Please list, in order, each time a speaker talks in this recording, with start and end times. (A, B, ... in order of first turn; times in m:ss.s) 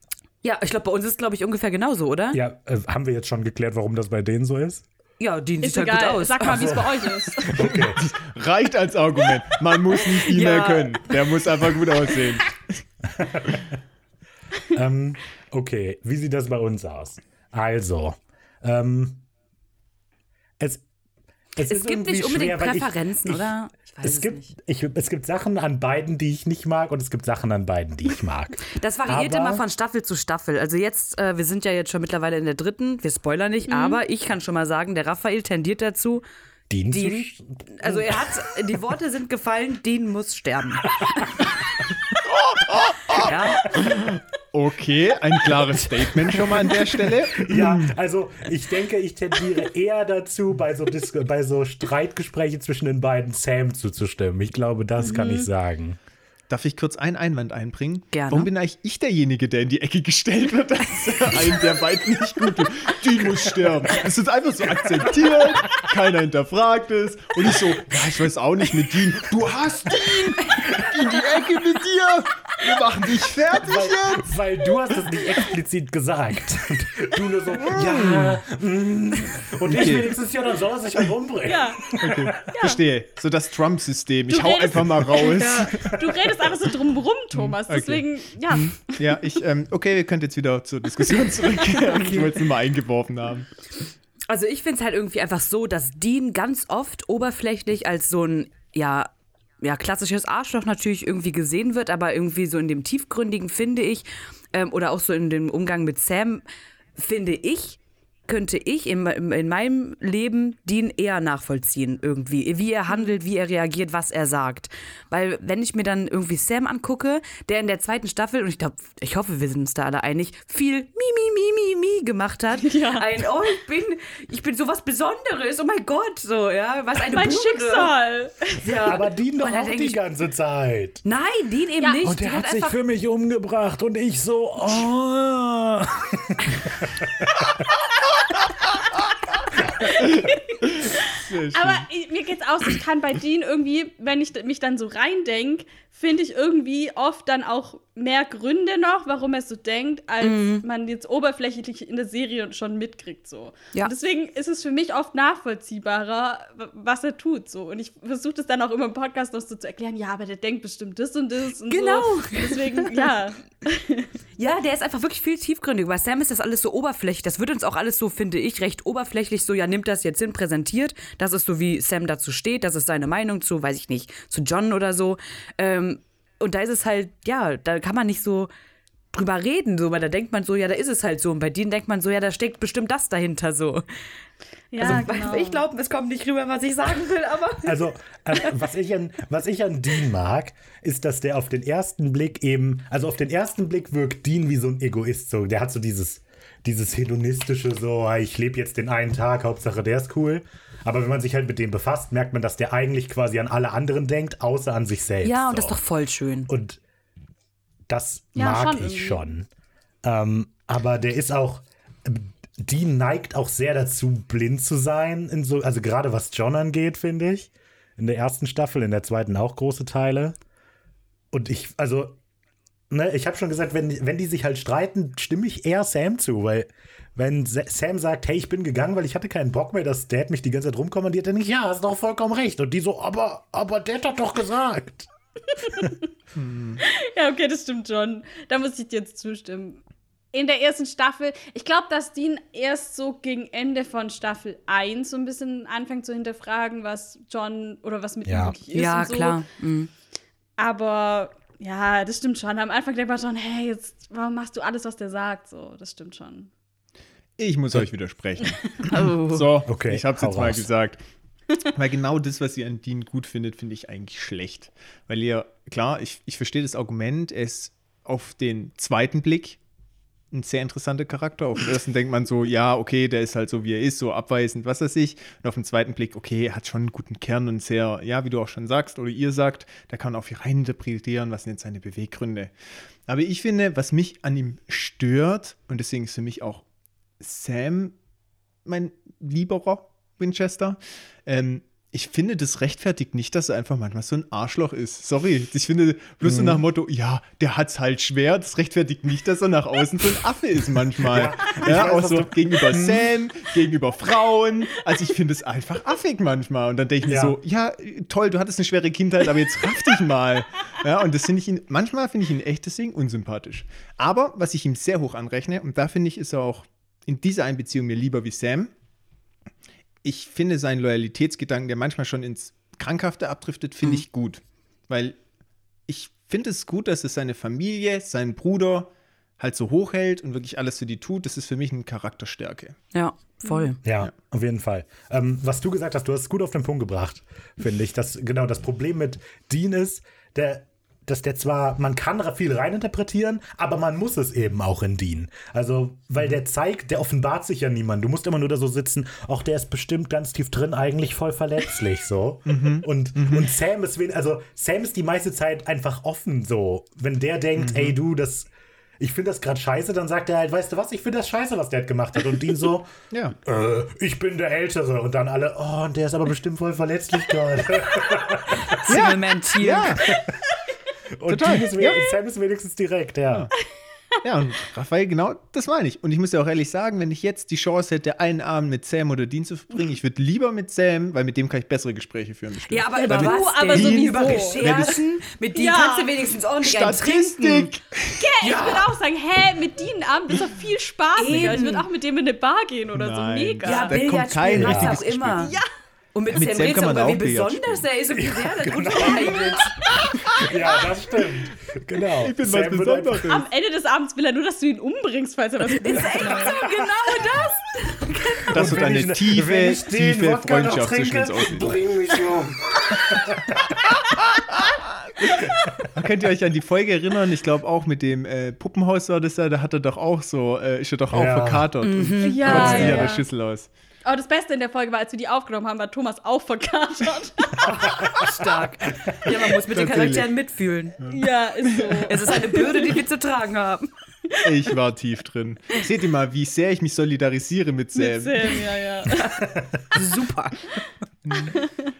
0:00.4-0:02.4 A
0:02.3-0:04.8 B
0:05.2-0:06.9 A
0:05.6-0:07.8 C
0:06.5-0:06.9 B
0:07.4-0:08.0 B
0:07.5-0:12.6 D
0:10.2-0:11.1 A
0:13.1-0:13.8 B
0:14.7-0:19.2 B
0:20.6-0:20.8 B
0:21.6-0:29.6 B
0:21.6-0:24.5 A
0:28.7-0:36.2 A
0:33.7-0:34.0 C
0:36.7-0:38.3 B
0:36.9-0:41.3 A
0:41.0-0:41.3 B
0:42.2-0:47.9 D
0:43.1-0:43.8 A
0:46.3-0:46.8 B
0:47.3-0:56.0 B
0:55.0-0:55.4 C
0:55.0-0:55.5 A
0:56.5-1:14.3 D
0:58.1-0:58.5 A
1:09.9-1:10.6 B
1:13.6-1:22.4 B
1:17.6-1:18.4 D
1:19.6-1:20.2 D
1:21.4-1:22.8 C
1:21.9-1:26.0 D
1:24.3-1:28.9 C
1:25.4-1:25.7 A
1:27.3-1:33.5 D
1:34.3-1:46.4 A
1:47.0-2:07.9 A
2:02.6-2:03.1 C
2:07.0-2:08.7 C
2:08.6-2:10.0 A
2:08.8-2:11.0 B
2:11.0-2:12.8 A
2:12.0-2:17.6 B
2:19.8-2:44.1 C
2:20.6-2:21.9 D
2:30.2-2:30.6 A
2:41.7-2:42.9 A
2:44.4-2:58.5 A
2:59.1-3:03.8 A
3:04.7-3:05.6 C
3:04.8-3:07.7 A
3:07.6-3:25.8 B
3:25.2-3:26.5 A
3:26.5-3:26.8 B
3:27.9-3:29.5 B
3:28.4-3:29.2 C
3:30.0-3:40.4 B
3:41.3-3:42.2 B
3:42.9-3:55.1 B
3:55.6-3:56.0 C
3:56.3-3:56.8 D
3:56.8-3:59.8 C
4:00.3-4:09.4 C
4:08.2-4:08.5 B
4:08.7-4:09.9 A
4:10.6-4:16.5 C
4:17.4-4:21.0 D
4:18.9-4:19.5 A
4:19.6-4:20.7 B
4:21.6-4:29.6 D
4:30.3-4:42.5 D
4:43.1-4:46.6 D
4:47.2-4:47.9 D
4:48.6-5:18.7 D
4:56.2-4:56.6 B
5:01.0-5:03.1 B
5:07.0-5:07.4 B
5:20.0-5:25.2 D
5:25.9-5:32.8 D
5:32.9-5:33.8 A
5:33.8-5:58.5 B
5:52.4-5:53.5 D
5:57.6-5:58.0 D
5:59.0-6:02.9 B
6:03.1-6:03.4 D
6:03.4-6:08.8 B
6:08.7-6:10.0 A
6:08.9-6:10.2 D
6:10.1-6:10.4 B
6:11.2-6:13.5 B
6:11.3-6:12.1 D
6:14.2-6:25.0 D
6:22.7-6:27.7 A
6:22.9-6:24.9 C
6:25.5-6:26.1 C
6:26.6-6:28.7 D
6:28.2-6:34.0 C
6:28.4-6:28.8 A
6:31.2-6:31.8 A
6:32.9-6:35.6 D
6:33.6-6:35.5 A
6:34.5-6:35.0 B
6:35.4-6:35.7 C
6:36.1-6:39.9 A
6:36.3-6:37.8 D
6:38.1-6:43.2 B
6:40.0-6:40.8 C
6:42.2-6:43.4 D
6:43.3-6:46.6 C
6:45.7-6:48.6 A
6:48.5-6:51.8 D
6:48.5-6:53.8 B
6:54.5-7:03.7 D
6:55.6-6:55.9 B
7:01.1-7:01.7 B
7:01.8-7:03.2 A
7:02.2-7:03.2 C
7:02.5-7:03.0 B
7:04.0-7:07.8 C
7:07.6-7:11.0 A
7:09.6-7:10.3 D
7:11.0-7:12.1 D
7:11.0-7:13.0 C
7:12.0-7:13.9 A
7:14.4-7:18.7 D
7:18.0-7:19.5 C
7:19.5-7:19.7 B
7:19.9-7:20.7 A
7:21.2-7:21.6 D